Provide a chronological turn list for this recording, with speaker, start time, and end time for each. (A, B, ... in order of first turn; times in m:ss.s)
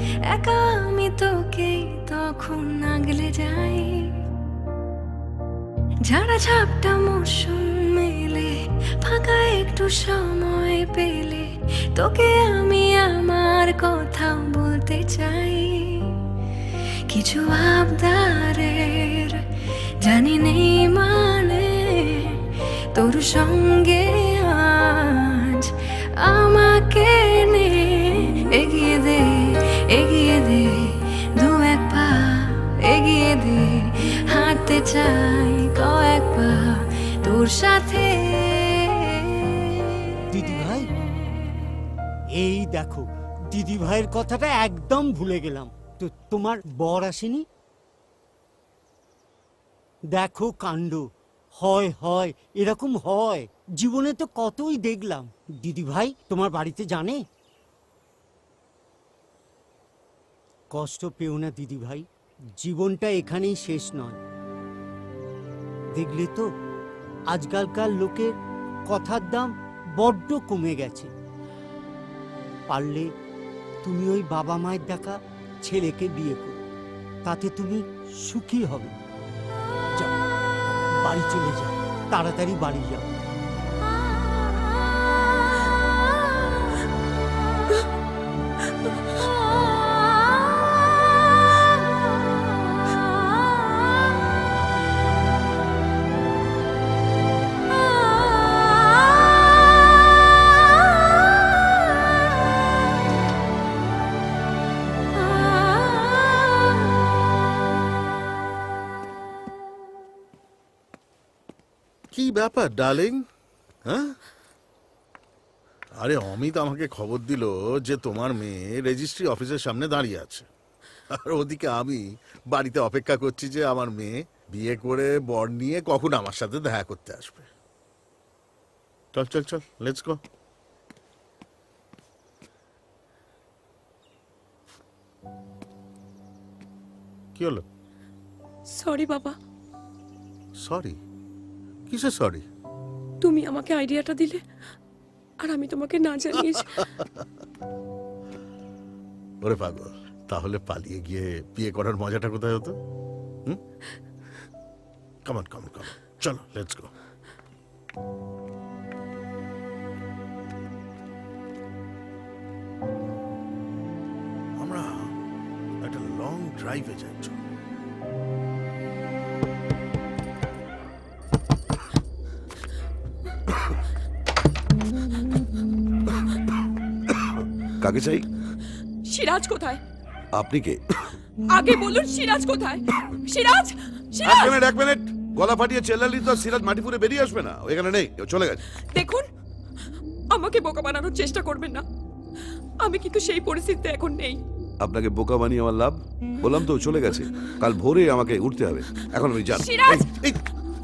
0:00.3-0:03.9 A
0:06.1-0:16.1 A
0:17.1-0:19.4 A
0:20.0-0:22.3 A
0:23.0-0:25.7 A
0:26.2-0:40.2 A
0:40.3-0:40.9 B
0:42.4-0:47.5 B
0:50.1-0:51.1 B
0:51.6-0:57.2 B
1:00.7-1:02.1 B
1:02.6-1:04.2 B
1:06.0-1:06.5 B
1:07.3-1:08.4 B
1:08.9-1:11.1 B
1:12.7-1:13.1 B
1:13.8-1:16.6 B
1:17.2-1:18.9 B
1:21.0-1:23.1 B
1:52.1-1:53.2 C
1:53.9-1:54.2 C
1:56.0-2:00.5 C
2:01.1-2:07.5 C
2:09.1-2:10.2 C
2:17.4-2:17.6 C
2:18.7-2:19.4 D
2:20.6-2:21.0 C
2:21.9-2:22.4 C
2:23.2-2:24.4 D
2:25.4-2:26.9 D
2:29.4-2:32.8 C
2:35.3-2:36.9 C
2:44.6-2:45.2 C
2:45.8-2:47.4 C
2:57.4-2:58.3 E
2:59.0-2:59.8 D
3:00.4-3:01.2 E
3:01.5-3:04.6 D
3:04.2-3:08.6 E
3:08.9-3:09.3 D
3:10.3-3:11.8 D
3:12.8-3:14.4 D
3:14.8-3:20.4 E
3:19.5-3:20.1 D